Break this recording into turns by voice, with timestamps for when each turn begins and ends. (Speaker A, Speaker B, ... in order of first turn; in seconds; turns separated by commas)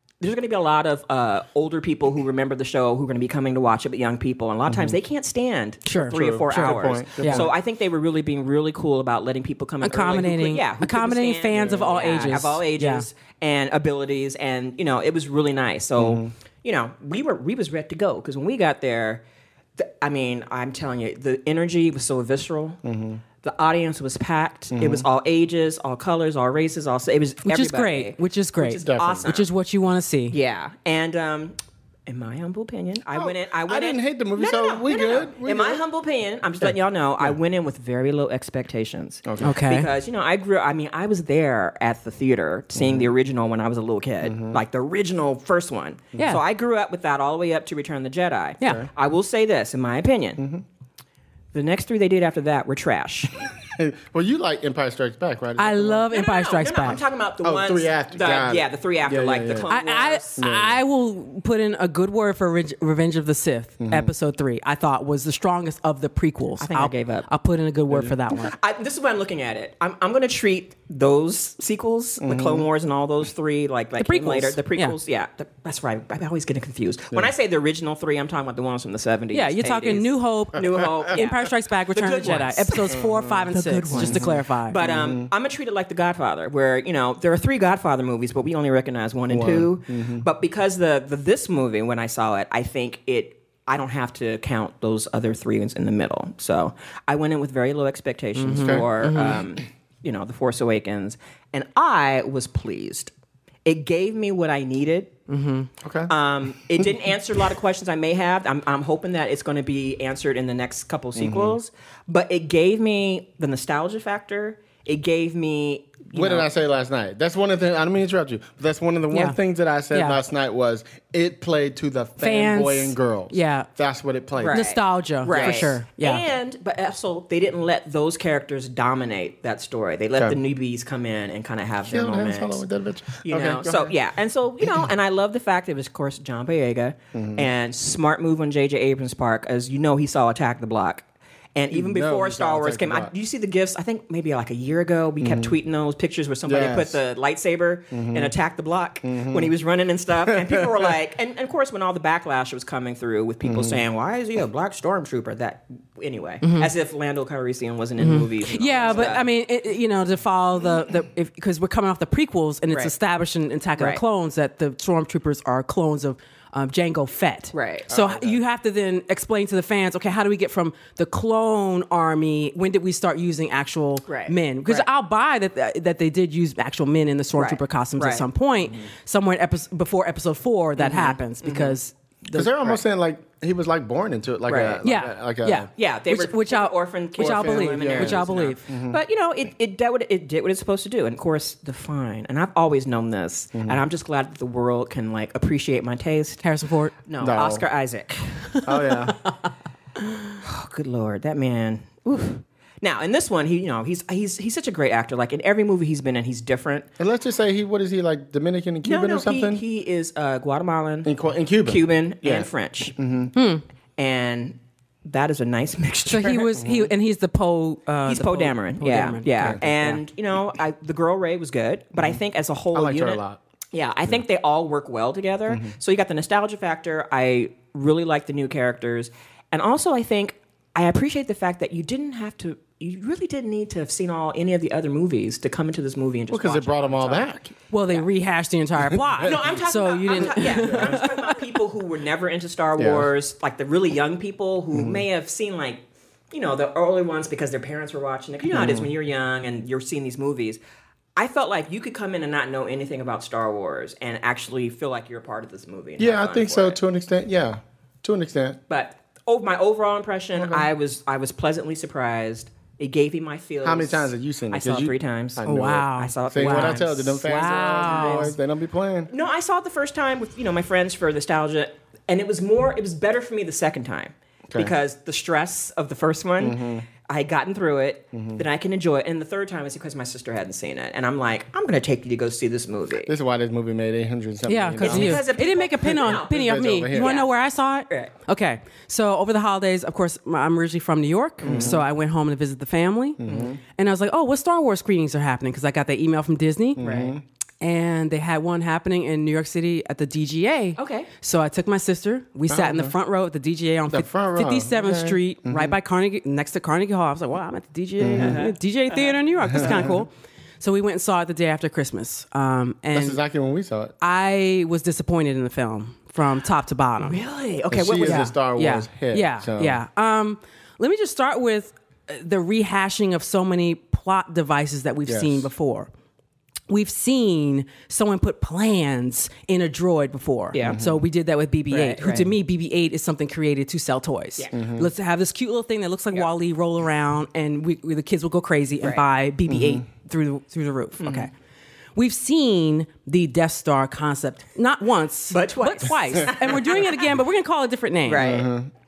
Speaker A: 0.2-19.2, Speaker B: 4.7-5.0, Speaker C: 5.8-7.5, Speaker B: 6.0-7.6, Speaker C: 9.8-13.1, Speaker B: 11.6-12.1, Speaker B: 16.0-16.3, Speaker A: 19.8-22.8, Speaker B: 22.8-23.2, Speaker A: 23.4-29.5, Speaker B: 24.7-25.1, Speaker C: 27.5-30.4, Speaker B: 28.8-29.3, Speaker A: 30.3-31.6, Speaker A: 32.1-50.4, Speaker B: 33.1-35.8, Speaker B: 36.6-37.4, Speaker B: 39.2-39.5, Speaker C: 39.4-39.9, Speaker B: 42.8-43.1, Speaker B: 44.2-44.6, Speaker C: 46.2-46.4, Speaker C: 48.6-48.9, Speaker B: 48.6-48.9, Speaker B: 50.4-50.6, Speaker A: 51.5-53.4, Speaker B: 53.6-56.1, Speaker C: 55.6-57.0, Speaker A: 56.1-60.3, Speaker B: 57.4-59.7, Speaker C: 59.7-68.5, Speaker B: 60.4-60.8, Speaker B: 63.8-64.1, Speaker A: 66.6-67.3, Speaker A: 68.4-103.1, Speaker B: 72.2-72.7, Speaker C: 74.0-75.0, Speaker C: 79.3-84.8, Speaker B: 82.9-85.3, Speaker B: 89.3-90.3, Speaker C: 98.4-99.4, Speaker B: 98.5-99.4, Speaker A: 103.7-105.2, Speaker C: 105.3-105.7, Speaker B: 105.8-106.1, Speaker A: 106.1-116.5, Speaker B: 111.2-111.6, Speaker B: 116.1-124.7, Speaker C: 119.1-119.4, Speaker C: 119.9-120.2, Speaker C: 122.2-123.7, Speaker A: 124.4-132.6, Speaker C: 124.5-126.2, Speaker B: 125.3-125.7, Speaker B: 131.9-134.0, Speaker A: 133.2-159.3, Speaker B: 137.1-137.5, Speaker B: 141.7-143.1, Speaker B: 145.2-145.5, Speaker B: 146.5-147.0, Speaker B: 147.9-148.3, Speaker B: 149.0-149.5, Speaker B: 150.3-150.9, Speaker B: 153.4-153.8, Speaker C: 156.4-156.7, Speaker C: 158.0-182.8, Speaker A: 167.5-167.9, Speaker B: 167.9-168.4, Speaker A: 174.1-174.9, Speaker A: 177.3-178.3, Speaker A: 180.8-181.8, Speaker B: 182.3-185.7, Speaker A: 184.5-184.8, Speaker C: 184.8-188.6, Speaker A: 185.7-196.4, Speaker B: 187.2-189.0, Speaker B: 193.6-193.8, Speaker C: 196.4-196.9, Speaker A: 197.1-198.6, Speaker B: 197.2-197.7, Speaker B: 198.7-199.2, Speaker A: 200.4-206.9, Speaker B: 207.0-209.6, Speaker A: 208.8-211.1, Speaker B: 211.0-213.3, Speaker A: 211.7-212.9, Speaker C: 213.3-213.6, Speaker A: 214.0-216.5, Speaker C: 216.1-220.0, Speaker B: 216.6-216.9, Speaker A: 218.1-223.2, Speaker B: 222.7-223.4, Speaker A: 223.7-238.1, Speaker B: 236.3-237.4, Speaker C: 237.7-241.4, Speaker B: 238.8-239.5, Speaker A: 239.2-250.6, Speaker B: 240.1-241.1, Speaker B: 242.8-243.1, Speaker B: 244.7-245.0, Speaker B: 248.5-248.9, Speaker A: 251.2-256.8, Speaker B: 256.0-258.6, Speaker A: 258.7-265.4, Speaker B: 260.4-260.7, Speaker B: 263.6-269.1, Speaker C: 265.4-268.3, Speaker A: 266.0-268.4, Speaker A: 269.1-283.1, Speaker B: 276.4-276.9, Speaker B: 278.1-278.4, Speaker B: 283.1-285.3, Speaker C: 284.5-293.2, Speaker A: 284.8-287.3, Speaker B: 285.9-287.2, Speaker A: 291.4-291.8, Speaker B: 291.4-291.8, Speaker B: 293.2-293.6, Speaker A: 293.2-293.6, Speaker C: 293.8-296.8, Speaker B: 296.8-297.2, Speaker A: 296.8-297.1, Speaker C: 297.6-313.2, Speaker A: 300.8-301.1, Speaker B: 302.5-302.9, Speaker B: 303.9-305.8, Speaker B: 308.0-308.4, Speaker A: 308.1-309.9, Speaker B: 309.5-309.9, Speaker B: 312.9-313.9, Speaker C: 314.0-317.2, Speaker A: 317.0-318.3, Speaker B: 317.7-319.8, Speaker C: 318.0-325.9, Speaker B: 325.1-325.5, Speaker C: 326.7-341.3, Speaker A: 330.5-330.8, Speaker B: 330.6-331.0, Speaker A: 331.7-332.3, Speaker B: 334.5-334.9, Speaker B: 339.5-339.8, Speaker A: 341.0-341.3, Speaker C: 342.0-348.3, Speaker A: 345.3-347.1, Speaker A: 348.1-348.5, Speaker B: 348.2-348.7